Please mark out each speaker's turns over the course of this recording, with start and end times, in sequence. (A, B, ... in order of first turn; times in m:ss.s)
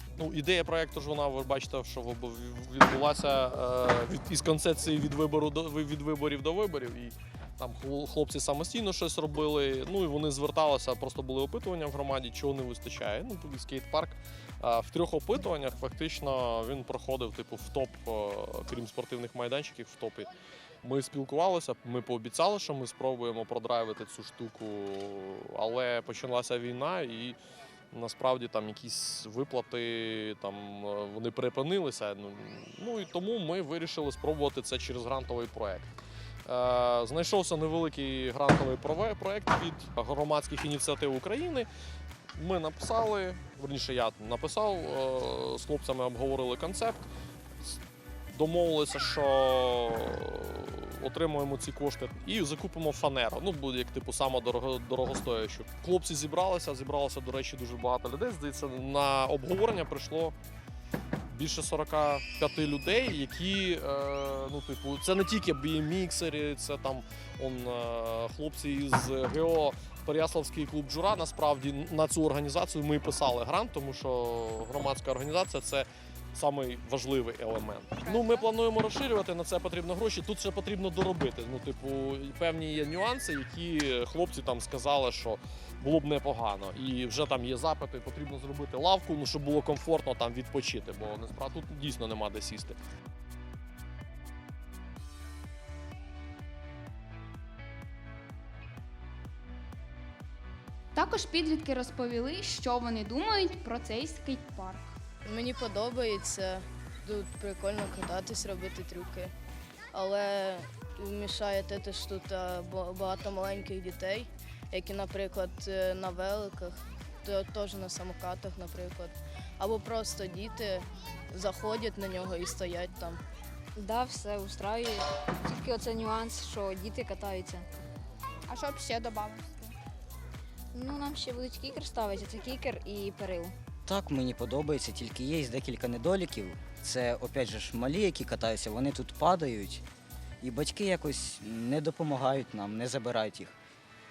0:00.2-0:20.3 A
0:20.8-0:27.4 A
0:27.9-0:35.9 A
0:36.4-0:41.7 A
0:42.4-0:47.1 A
0:48.3-1:00.3 A
1:01.3-1:32.8 A
1:18.1-1:18.4 B
1:40.9-1:44.9 B
1:45.2-1:49.3 C
1:49.9-2:03.2 C
2:03.8-2:07.7 D
2:08.5-2:09.7 B
2:10.7-2:13.6 D
2:13.8-2:19.8 E
2:20.4-2:23.6 E